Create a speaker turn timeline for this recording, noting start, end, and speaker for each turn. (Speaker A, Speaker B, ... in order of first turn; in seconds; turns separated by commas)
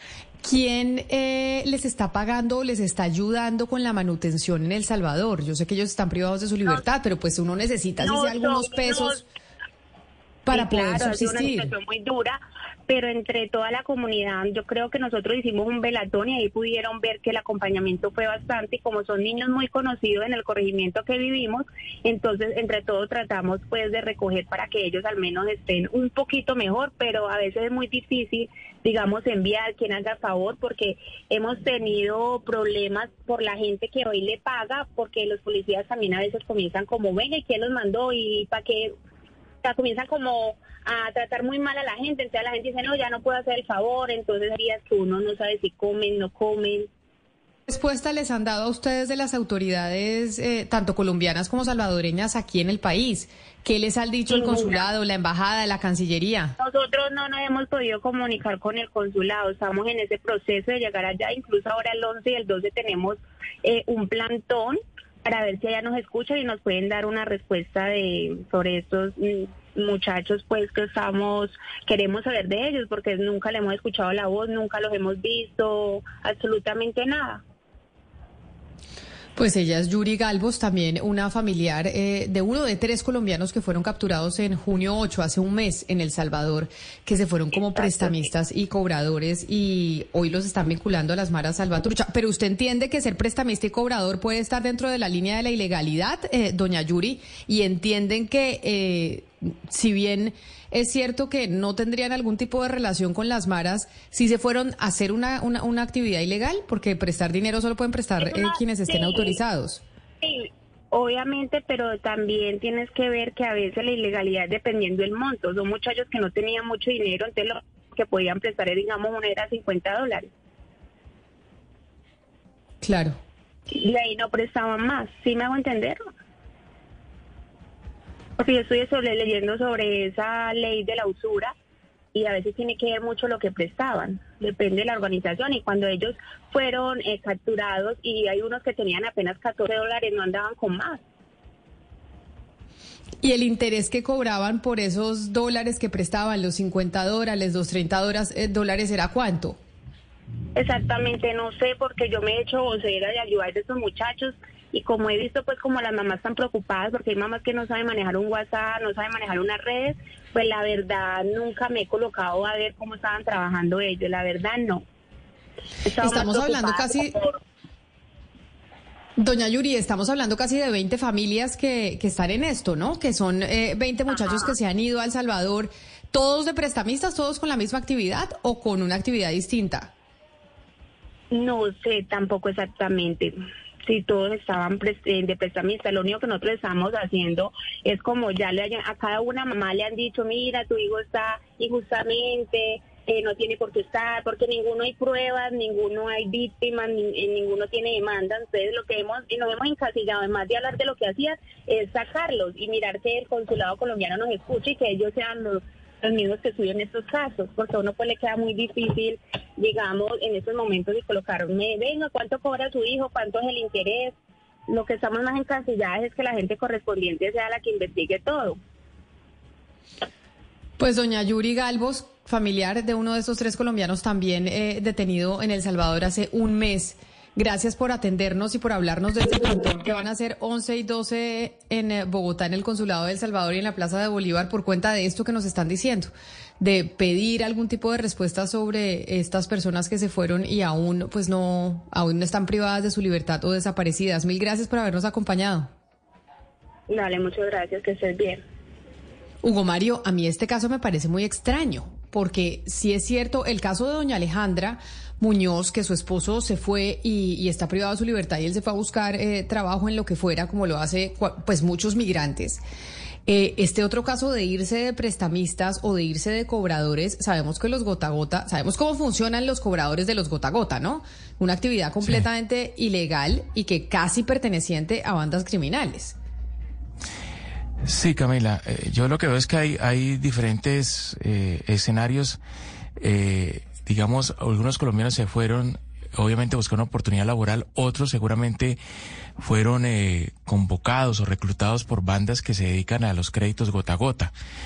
Speaker A: 0.4-9.2, Speaker B: 8.0-9.2, Speaker A: 10.5-11.7, Speaker B: 10.5-38.9, Speaker B: 39.6-46.9, Speaker A: 47.7-56.5, Speaker B: 54.3-54.9, Speaker B: 56.6-77.4, Speaker A: 79.4-109.8, Speaker B: 87.8-88.2, Speaker B: 108.2-109.4, Speaker B: 110.2-120.3, Speaker A: 122.8-123.2, Speaker B: 123.7-126.0, Speaker B: 128.4-131.5, Speaker B: 132.1-141.0, Speaker A: 143.2-149.6, Speaker B: 150.6-164.8, Speaker B: 165.8-167.4, Speaker A: 166.0-167.1, Speaker A: 169.2-179.9, Speaker B: 174.2-174.5, Speaker B: 181.3-214.2, Speaker B: 214.7-218.6, Speaker A: 220.8-245.7, Speaker B: 246.9-248.4, Speaker A: 249.4-262.6, Speaker A: 263.3-276.2, Speaker C: 277.8-282.4, Speaker C: 283.0-288.8, Speaker C: 289.4-294.3